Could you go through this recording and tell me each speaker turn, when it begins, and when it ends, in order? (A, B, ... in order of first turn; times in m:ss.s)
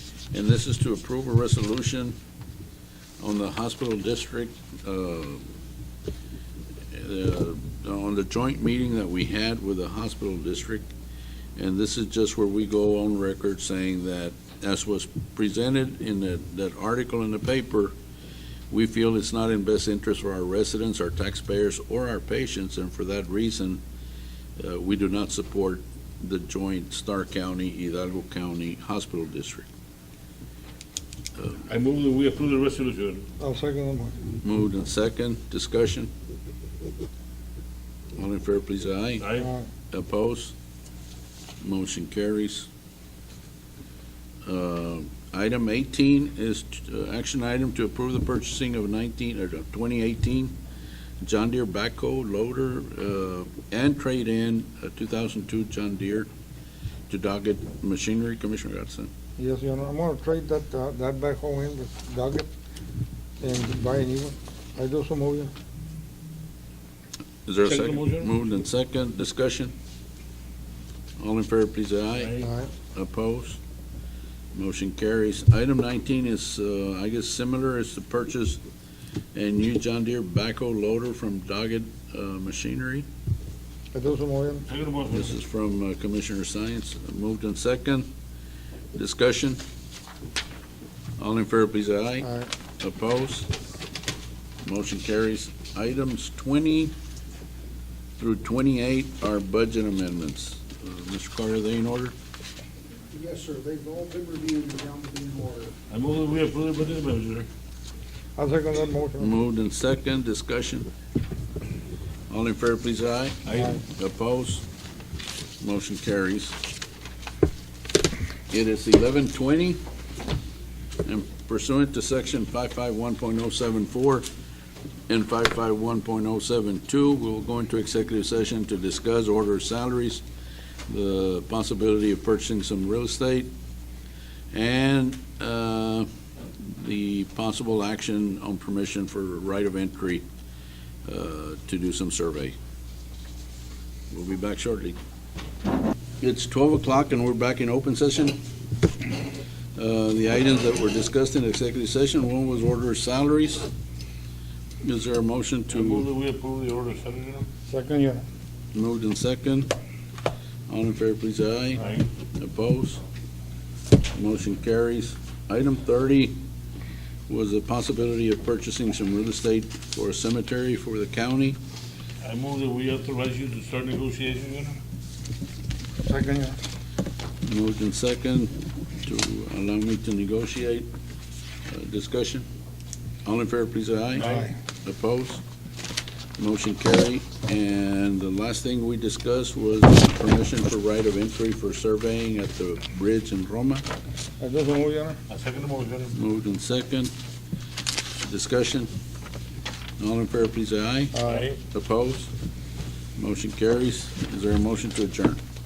0:00.3-0:02.1 A
0:03.2-0:05.5 A
0:06.9-0:10.8 A
0:11.6-0:17.9 A
0:18.7-0:23.8 A
0:24.6-0:29.7 A
0:31.7-0:33.2 B
0:33.4-0:34.2 C
0:34.4-0:36.1 A
0:38.2-0:39.3 A
0:39.2-0:39.5 B
0:39.4-0:39.7 C
0:39.9-0:40.5 A
0:41.6-0:42.7 A
0:44.4-0:50.5 A
0:51.2-0:56.3 A
0:57.1-0:59.1 A
0:59.4-1:02.5 C
1:03.4-1:05.5 C
1:07.4-1:09.7 A
1:07.6-1:08.3 B
1:11.2-1:12.4 A
1:12.1-1:12.5 B
1:12.4-1:12.7 C
1:12.9-1:13.6 A
1:14.5-1:18.6 A
1:19.3-1:23.0 A
1:23.9-1:24.7 C
1:24.7-1:25.3 B
1:25.1-1:28.1 A
1:28.9-1:29.6 A
1:31.2-1:32.3 A
1:32.2-1:32.5 C
1:32.8-1:33.5 A
1:34.6-1:36.9 A
1:38.2-1:42.1 A
1:43.1-1:45.7 D
1:45.9-1:47.5 B
1:48.4-1:49.4 C
1:49.2-1:50.9 A
1:52.3-1:54.6 A
1:53.4-1:53.7 B
1:53.5-1:53.8 C
1:55.6-1:56.6 A
1:58.5-1:59.8 A
2:01.0-2:04.2 A
2:05.1-2:10.2 A
2:10.9-2:13.5 A
2:14.5-2:16.1 A
2:16.7-2:20.2 A
2:21.0-2:22.5 A
2:24.1-2:25.0 A
2:26.2-2:28.4 A
2:29.8-2:33.7 A
2:34.8-2:36.1 A
2:35.7-2:37.5 B
2:37.7-2:38.2 C
2:38.7-2:39.7 A
2:40.7-2:41.8 A
2:41.8-2:42.1 B
2:42.3-2:43.0 A
2:44.1-2:46.4 A
2:47.3-2:51.6 A
2:52.2-2:54.8 B
2:56.0-2:56.6 C
2:57.4-3:00.9 A
3:01.7-3:02.4 A
3:03.2-3:05.4 A
3:04.2-3:04.5 C
3:06.4-3:13.8 A
3:14.4-3:15.2 C
3:15.3-3:16.1 B
3:16.1-3:17.1 A
3:18.2-3:18.9 A
3:20.0-3:22.3 A
3:21.1-3:21.5 C
3:21.2-3:21.6 B
3:23.2-3:25.4 A